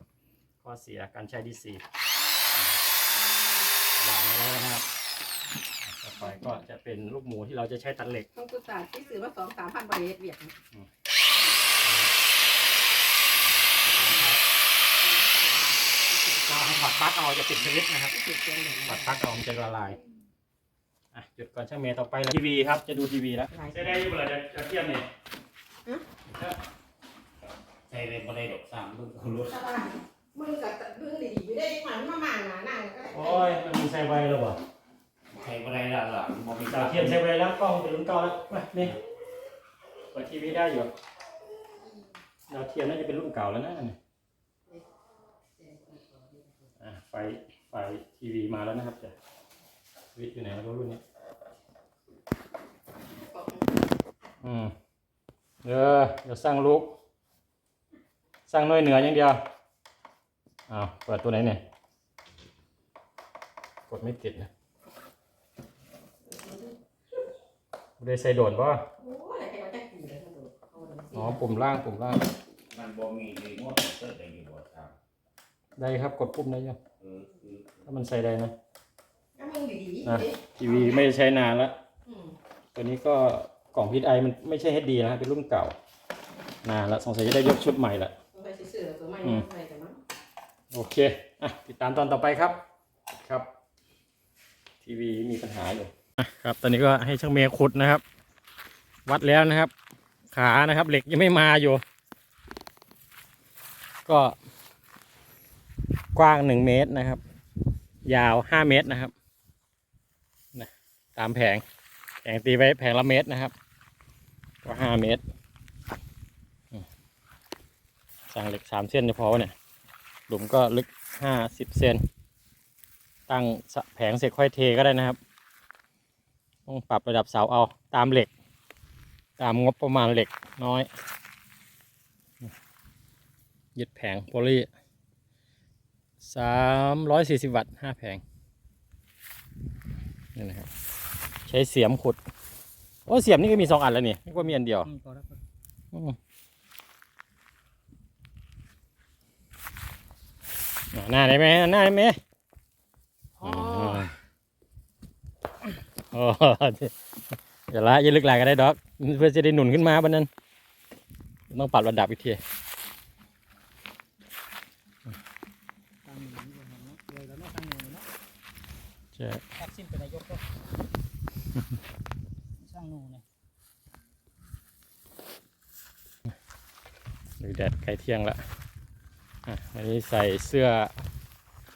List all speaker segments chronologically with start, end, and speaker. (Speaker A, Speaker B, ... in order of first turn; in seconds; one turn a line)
Speaker A: 0.6-1.8
Speaker B: 3.1-3.7
Speaker A: 4.0-4.9
Speaker A: 5.8-8.3
Speaker B: 8.3-10.5
Speaker A: 11.8-12.1
Speaker A: 13.4-14.4
Speaker B: 13.9-14.2
Speaker B: 15.0-16.8
Speaker A: 16.4-18.2
Speaker B: 18.1-19.1
Speaker A: 18.8-20.0
Speaker A: 21.1-25.1
Speaker B: 23.5-24.1
Speaker A: 26.2-26.6
Speaker C: 27.9-29.7
Speaker B: 29.5-33.5
Speaker A: 33.1-34.6
Speaker C: 35.3-37.2
Speaker A: 36.6-39.0
Speaker A: 40.1-40.9
Speaker A: 42.5-44.0
Speaker B: 45.6-46.5
Speaker A: 46.8-49.1
Speaker A: 50.1-51.0
Speaker B: 53.1-53.7
Speaker A: 54.4-54.8
Speaker A: 55.6-56.9
Speaker A: 58.5-59.4
Speaker A: 60.7-61.6
Speaker A: 63.9-64.5
Speaker B: 66.3-66.8
Speaker A: 68.0-68.9
Speaker B: 69.0-71.4
Speaker A: 71.1-72.3
Speaker C: 72.7-75.0
Speaker A: 75.8-76.8
Speaker C: 77.0-77.7
Speaker A: 77.8-78.5
Speaker B: 79.4-81.1
Speaker A: 80.0-81.8
Speaker B: 82.1-82.4
Speaker A: 82.8-85.8
Speaker A: 86.6-88.2
Speaker B: 88.3-90.0
Speaker A: 90.7-92.6
Speaker A: 93.2-93.5
Speaker A: 94.8-98.0
Speaker A: 99.1-99.7
Speaker A: 100.3-101.8
Speaker A: 104.1-104.4
Speaker A: 106.1-107.2
Speaker A: 108.0-109.1
Speaker A: 110.5-111.6
Speaker A: 112.2-113.5
Speaker A: 114.6-115.2
Speaker A: 118.3-119.5
Speaker A: 120.3-122.0
Speaker A: 123.3-125.2
Speaker A: 126.7-128.3
Speaker A: 129.4-130.9
Speaker A: 133.8-134.7
Speaker A: 136.2-138.2
Speaker A: 140.3-140.7
Speaker A: 141.4-142.2
Speaker A: 143.1-144.9
Speaker D: 144.8-145.4
Speaker A: 145.9-146.2
Speaker A: 150.9-152.2
Speaker A: 153.4-154.1
Speaker A: 156.0-157.0
Speaker A: 157.7-160.3
Speaker A: 161.5-162.4
Speaker D: 166.1-168.1
Speaker A: 169.1-169.5
Speaker D: 169.6-170.4
Speaker D: 172.6-173.2
Speaker A: 177.4-178.4
Speaker A: 179.5-180.9